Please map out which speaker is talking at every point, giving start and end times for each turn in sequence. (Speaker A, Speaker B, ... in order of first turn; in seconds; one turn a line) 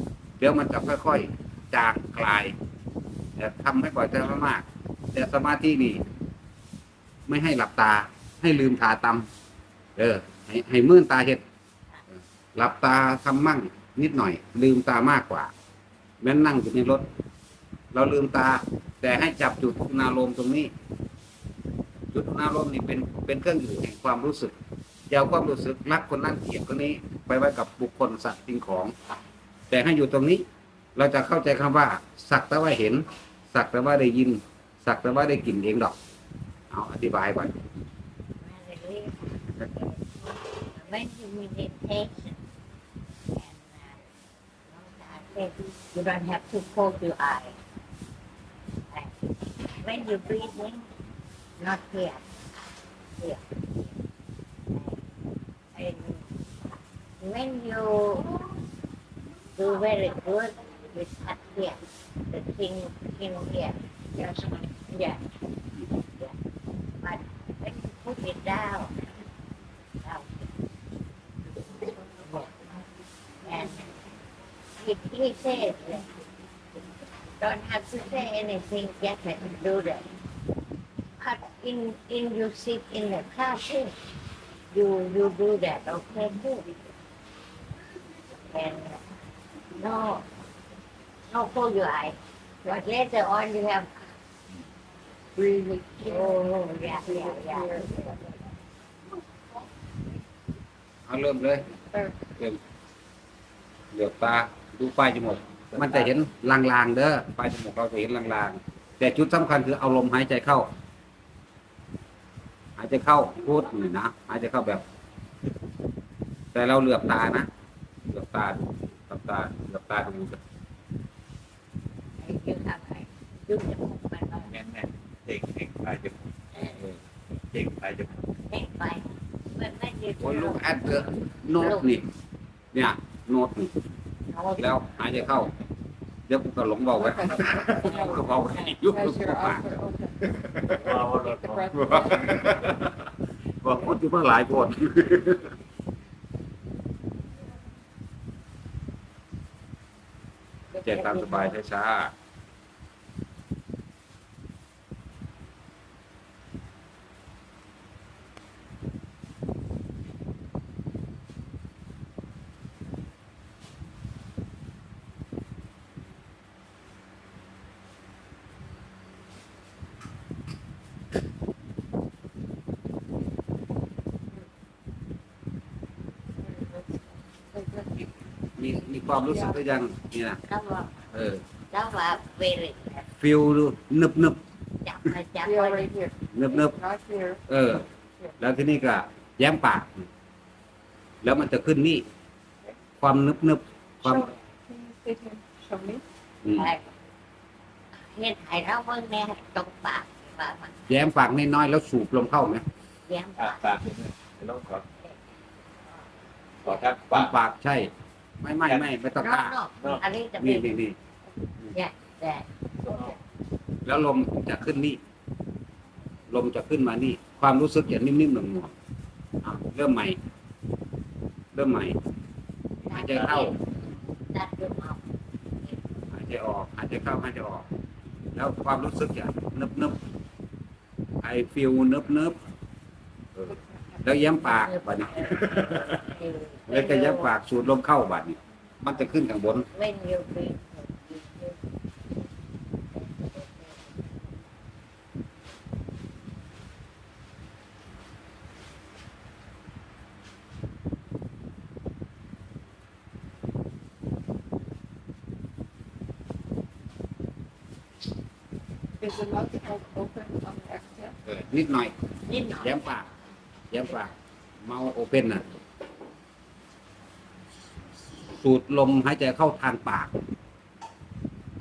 Speaker A: 0.4-2.5
Speaker A: 3.4-6.0
Speaker A: 7.3-9.3
Speaker A: 10.0-11.4
Speaker A: 12.5-15.5
Speaker A: 16.2-17.1
Speaker A: 17.9-20.7
Speaker A: 22.1-24.5
Speaker A: 25.1-28.9
Speaker A: 29.7-30.4
Speaker A: 30.9-35.9
Speaker A: 36.7-37.5
Speaker B: 38.4-42.4
Speaker B: 43.3-44.1
Speaker B: 44.7-47.5
Speaker B: 48.9-50.9
Speaker B: 51.6-53.9
Speaker B: 54.7-55.0
Speaker B: 55.7-56.4
Speaker B: 57.2-58.3
Speaker B: 59.5-61.8
Speaker B: 62.3-63.8
Speaker C: 64.1-64.7
Speaker B: 64.9-65.2
Speaker B: 65.9-66.3
Speaker B: 67.0-68.9
Speaker B: 70.0-70.5
Speaker B: 72.2-72.5
Speaker B: 73.4-74.0
Speaker B: 74.8-76.1
Speaker B: 77.3-80.1
Speaker B: 81.2-83.9
Speaker B: 84.7-86.7
Speaker B: 88.4-89.0
Speaker B: 89.8-90.2
Speaker B: 91.3-94.1
Speaker C: 95.3-96.4
Speaker B: 96.0-98.2
Speaker C: 96.9-98.3
Speaker A: 101.1-101.7
Speaker A: 103.9-110.7
Speaker A: 112.8-114.8
Speaker A: 116.5-117.5
Speaker A: 118.1-120.4
Speaker B: 122.2-124.5
Speaker D: 124.5-126.2
Speaker B: 126.5-126.8
Speaker D: 127.5-128.1
Speaker B: 128.5-130.7
Speaker A: 130.2-132.1
Speaker B: 131.6-132.0
Speaker A: 132.7-133.8
Speaker B: 134.3-134.6
Speaker A: 134.6-135.5
Speaker A: 136.3-139.7
Speaker C: 136.9-142.5
Speaker B: 137.8-138.7
Speaker A: 140.3-140.9
Speaker D: 140.8-141.8
Speaker A: 141.7-145.5
Speaker C: 150.7-151.5
Speaker A: 150.8-152.1
Speaker C: 176.4-178.1
Speaker A: 178.6-180.4
Speaker C: 179.2-179.7
Speaker B: 180.4-180.9
Speaker A: 181.1-181.4
Speaker B: 181.7-183.1
Speaker A: 183.2-184.4
Speaker B: 184.8-185.9
Speaker C: 185.4-187.4
Speaker A: 186.3-186.7
Speaker A: 187.5-187.9
Speaker A: 188.4-190.1
Speaker A: 191.2-192.1
Speaker A: 193.0-194.3
Speaker C: 194.0-196.0
Speaker A: 196.4-196.7
Speaker B: 196.6-196.8
Speaker B: 198.0-200.8
Speaker A: 200.9-202.6
Speaker B: 203.1-203.8
Speaker D: 203.4-204.8
Speaker D: 206.6-207.3
Speaker A: 207.1-207.9
Speaker A: 208.4-209.6
Speaker B: 209.1-210.7
Speaker A: 210.4-210.9
Speaker B: 211.7-212.5
Speaker C: 212.8-213.1
Speaker A: 213.8-215.0
Speaker A: 216.3-218.7
Speaker A: 219.4-220.2
Speaker A: 221.5-222.0
Speaker B: 222.9-223.6
Speaker A: 222.9-223.5
Speaker B: 224.3-225.0
Speaker A: 226.1-227.7
Speaker A: 228.3-230.0
Speaker A: 231.2-232.3
Speaker C: 233.5-234.1
Speaker A: 234.0-236.0
Speaker B: 234.4-237.3
Speaker A: 236.7-239.7
Speaker B: 239.7-241.6
Speaker B: 242.9-244.4
Speaker C: 259.0-261.1
Speaker A: 261.2-261.9
Speaker B: 262.2-262.8
Speaker A: 262.6-263.1
Speaker A: 263.7-265.4
Speaker A: 268.3-270.1